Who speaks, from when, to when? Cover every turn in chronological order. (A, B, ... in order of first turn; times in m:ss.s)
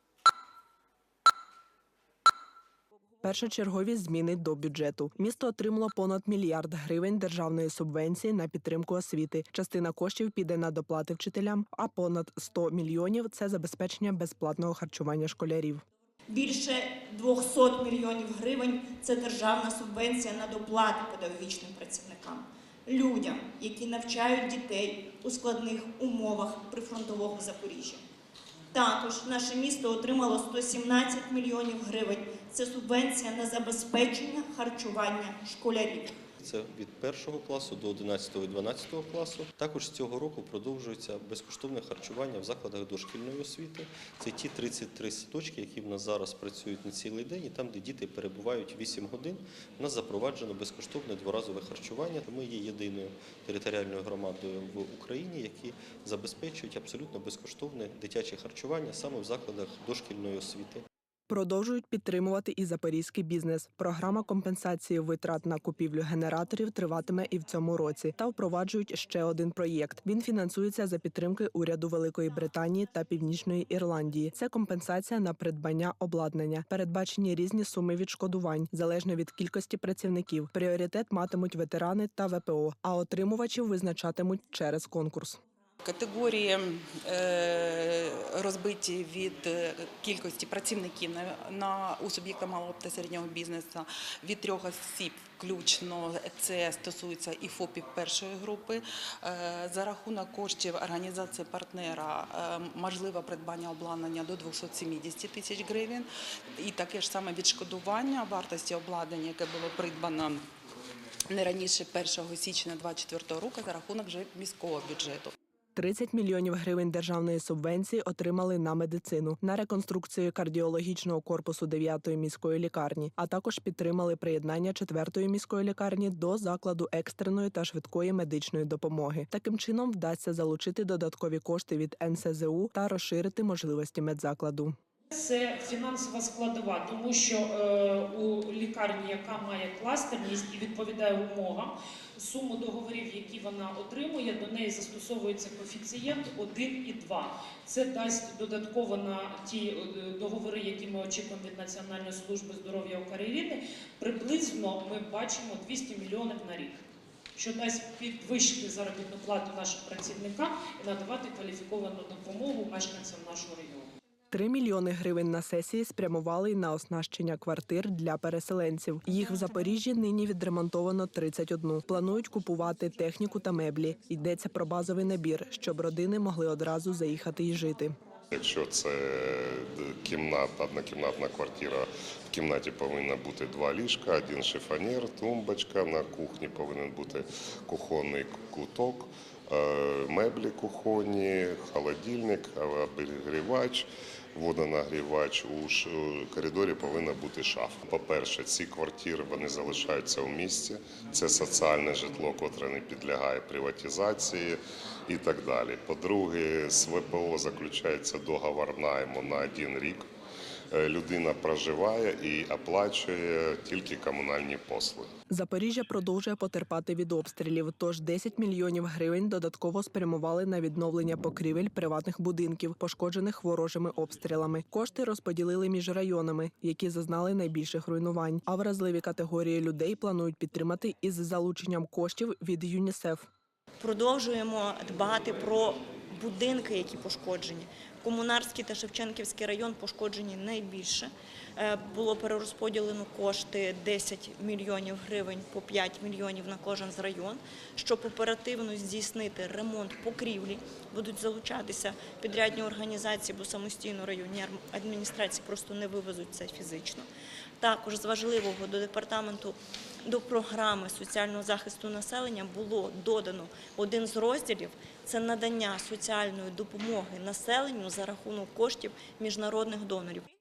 0:03.2-0:15.8 A
0:16.3-0:28.0 B
0:28.7-0:36.2 B
0:36.4-1:00.8 C
1:01.3-1:25.4 A
1:25.8-1:50.4 D
1:51.3-1:55.3 D
1:55.7-2:14.7 A
2:15.1-2:36.8 E
2:37.4-2:43.9 E
2:44.3-2:57.9 A
2:58.3-3:30.0 F
3:30.7-3:35.1 F
3:35.3-3:53.3 A
3:53.8-4:17.0 B
4:17.6-4:30.3 B